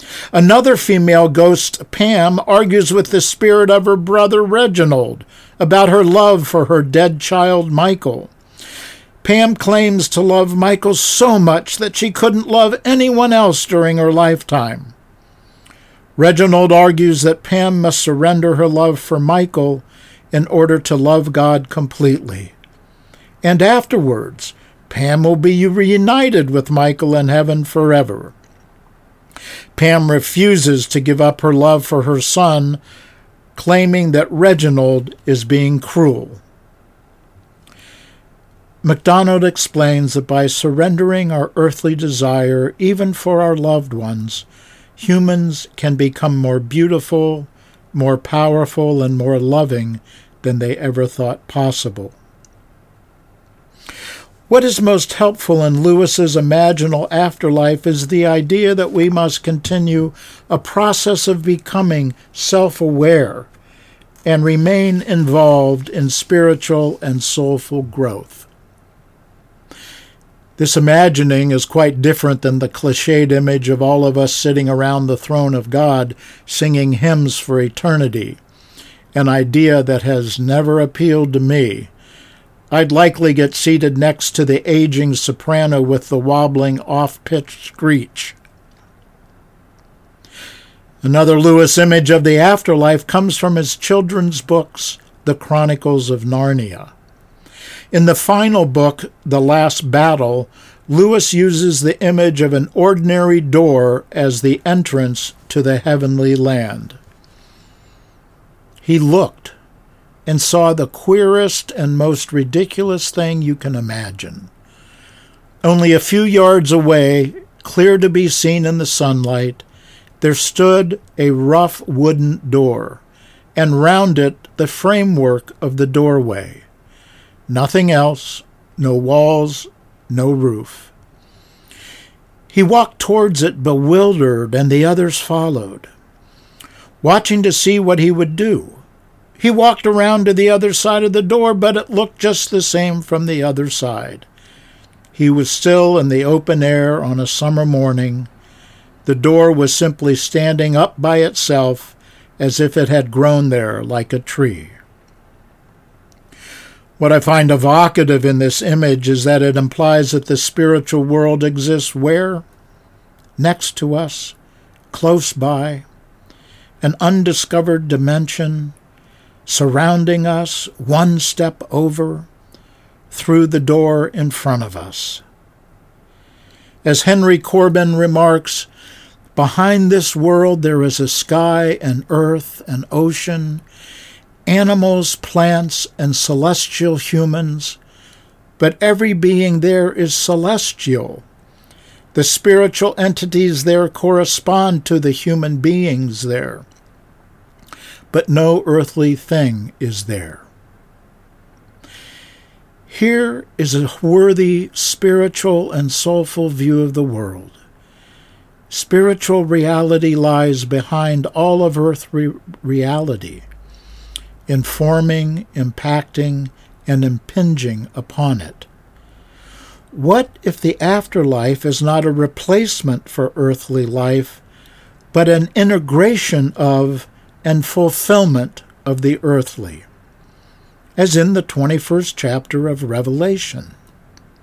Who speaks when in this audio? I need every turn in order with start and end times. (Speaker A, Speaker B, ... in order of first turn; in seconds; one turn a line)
Speaker A: 0.3-8.3
Speaker A: 9.2-14.9
Speaker A: 16.2-22.5
Speaker A: 23.4-28.3
Speaker A: 29.8-32.8
Speaker A: 33.5-36.4
Speaker A: 38.8-44.4
Speaker A: 45.0-52.1
Speaker A: 54.5-63.5
Speaker A: 64.2-68.5
Speaker A: 70.6-78.4
Speaker A: 79.1-81.9
Speaker A: 82.7-88.4
Speaker A: 91.0-96.9
Speaker A: 97.9-107.0
Speaker A: 108.8-109.5
Speaker A: 110.2-114.5
Speaker A: 115.6-119.6
Speaker A: 120.2-123.0
Speaker A: 123.5-126.6
Speaker A: 127.5-130.9
Speaker A: 132.5-135.9
Speaker A: 137.0-138.8
Speaker A: 139.4-144.3
Speaker A: 145.1-148.3
Speaker A: 149.0-154.8
Speaker A: 157.0-162.4
Speaker A: 163.4-164.3
Speaker A: 164.9-165.8
Speaker A: 166.8-168.7
Speaker A: 169.4-172.3
Speaker A: 173.1-175.2
Speaker A: 176.8-178.7
Speaker A: 179.3-183.6
Speaker A: 184.4-187.8
Speaker A: 188.6-191.2
Speaker A: 192.1-196.7
Speaker A: 198.1-200.5
Speaker A: 202.9-207.6
Speaker A: 208.7-213.4
Speaker A: 214.5-218.7
Speaker A: 219.9-224.4
Speaker A: 225.1-229.8
Speaker A: 230.9-233.8